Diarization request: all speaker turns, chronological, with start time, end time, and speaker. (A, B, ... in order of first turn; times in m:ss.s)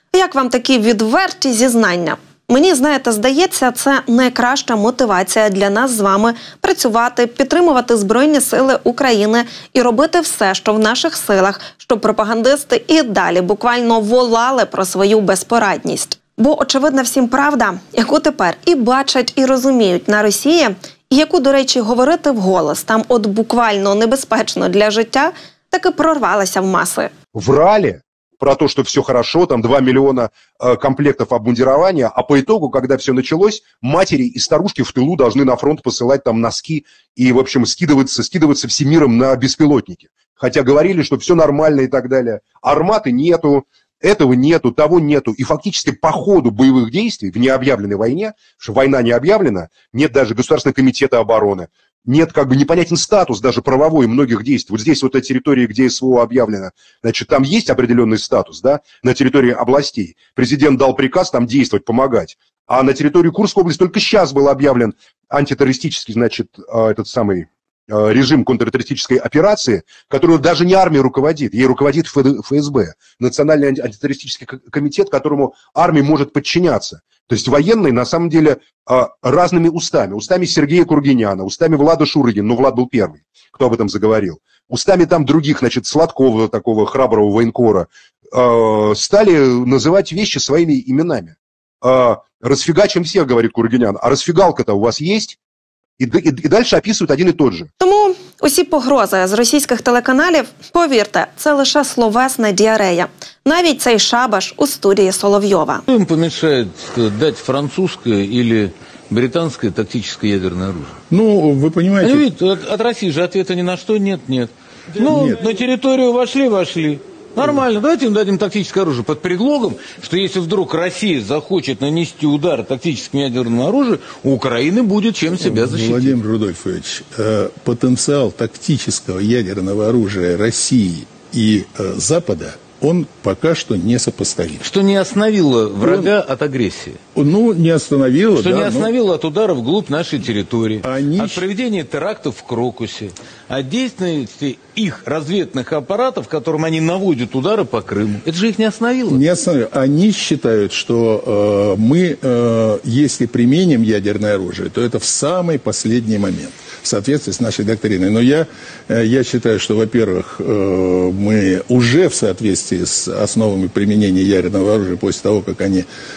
0:00.1-0:27.1 A
0:27.3-1:35.4 B
1:36.0-1:37.7 B
1:37.8-1:45.8 A
1:45.9-1:50.9 C
1:51.1-1:52.3 D
1:52.0-2:06.2 C
1:55.0-1:55.4 D
2:05.4-2:14.7 D
2:14.6-2:17.0 C
2:15.8-2:16.2 D
2:17.1-2:18.9 D
2:18.3-2:29.2 C
2:20.8-2:21.5 D
2:29.1-2:45.9 D